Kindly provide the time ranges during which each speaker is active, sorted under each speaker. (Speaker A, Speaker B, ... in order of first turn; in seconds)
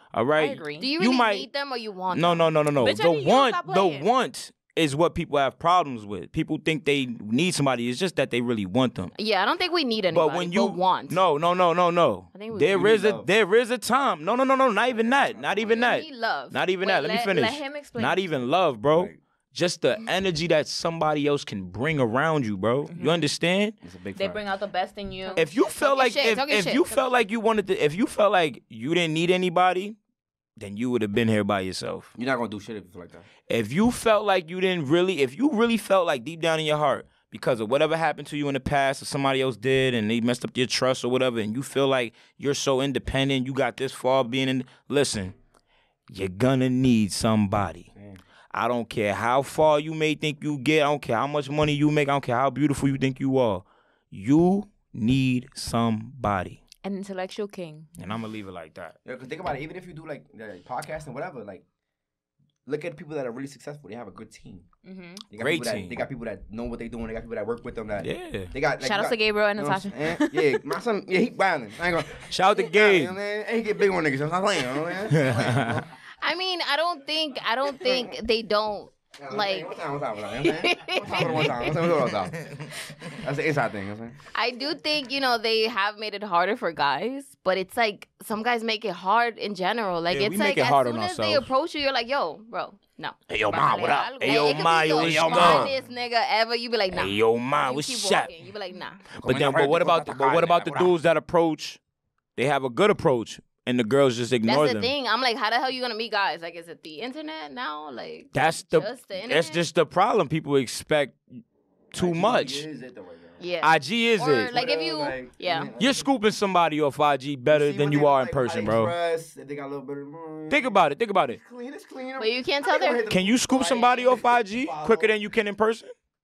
Speaker A: 0.1-1.5, 2.1-9.1, 10.1-23.8, 25.4-30.0, 30.6-32.1, 33.5-45.4, 46.1-47.9, 48.5-56.6, 58.0-59.0, 65.4-66.0, 68.0-68.5, 72.2-73.2, 75.1-75.8, 81.2-81.5, 82.4-82.7, 90.1-91.5, 93.3-95.7, 96.9-98.3, 99.2-101.8, 102.4-104.9, 108.3-112.7, 113.6-114.5, 115.8-118.9, 120.5-121.4, 123.1-125.9
Speaker B: 0.4-0.9, 2.8-4.1, 16.8-18.2, 22.9-23.2, 24.2-25.5, 56.8-57.9, 64.8-65.2, 68.8-70.7, 93.5-95.6
Speaker C: 0.8-2.5, 9.2-11.2, 12.3-12.9, 15.7-16.6, 25.4-27.0, 76.2-79.7, 80.4-81.9, 84.3-93.2, 94.2-99.1, 104.5-109.7, 113.4-115.7, 122.2-123.0
Speaker D: 12.7-13.3, 14.9-15.9, 18.9-19.2, 23.8-24.4, 32.1-33.3, 48.0-48.2, 59.0-61.6, 62.7-64.7, 65.3-75.9, 79.2-82.4, 83.2-84.2, 95.0-95.8, 99.2-101.0, 112.0-113.4, 114.5-116.1, 117.5-125.2